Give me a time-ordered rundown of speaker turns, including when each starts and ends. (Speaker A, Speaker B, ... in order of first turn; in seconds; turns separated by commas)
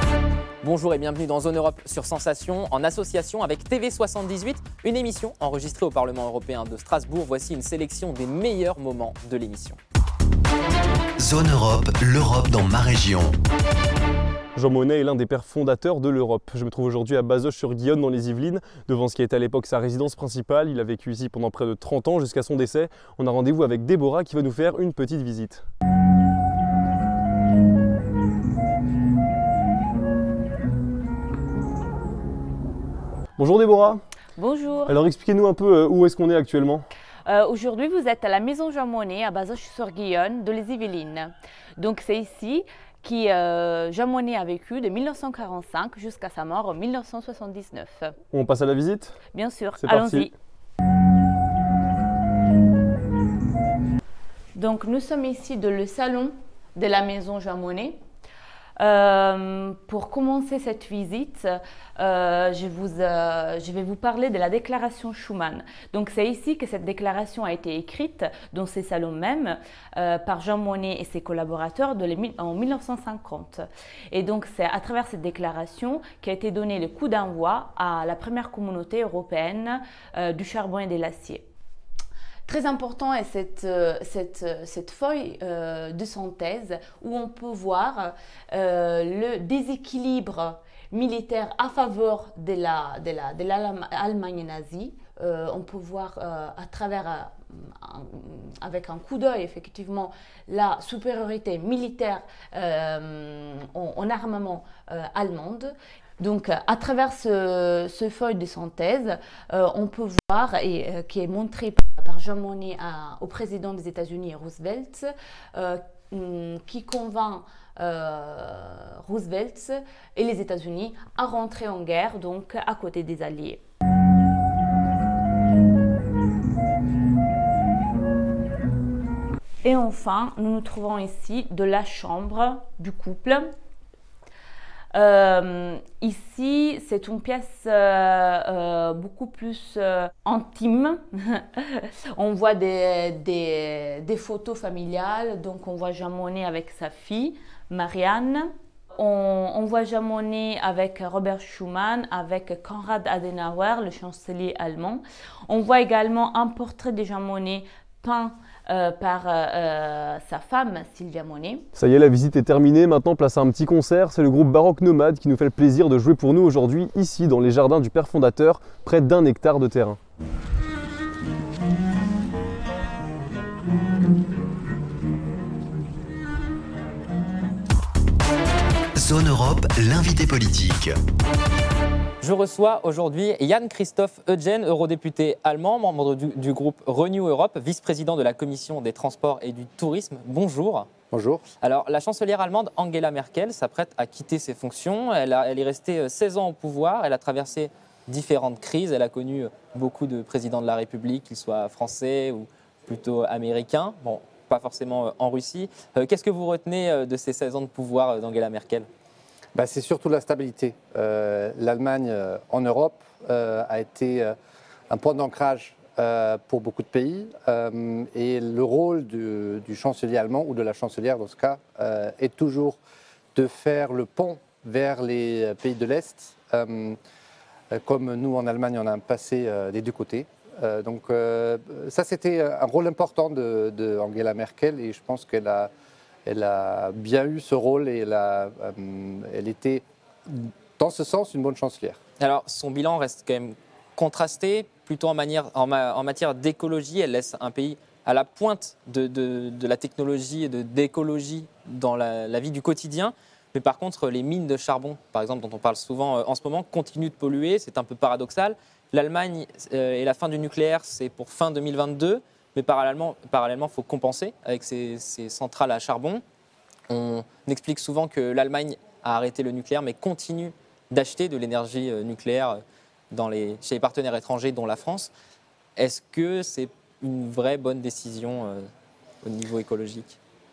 Speaker A: 0.6-9.8, Speaker B: 11.2-13.4, Speaker C: 14.6-25.6, Speaker C: 33.4-34.0, Speaker D: 34.4-35.0, Speaker C: 34.9-36.9, Speaker D: 37.3-48.2, Speaker C: 48.3-49.2, Speaker D: 49.3-50.3, Speaker C: 49.8-50.3, Speaker D: 54.5-58.0, Speaker D: 58.8-81.4, Speaker D: 82.5-123.6, Speaker D: 129.6-133.5, Speaker D: 134.9-161.7, Speaker C: 161.8-170.0, Speaker B: 179.0-181.0, Speaker A: 182.2-190.9, Speaker E: 191.1-191.4, Speaker A: 191.6-208.9, Speaker E: 209.6-214.3, Speaker E: 214.9-222.8, Speaker E: 223.3-227.0, Speaker E: 227.7-235.7, Speaker E: 236.3-242.0, Speaker A: 242.2-266.2, Speaker A: 266.9-275.1, Speaker A: 275.8-278.7, Speaker A: 279.2-280.2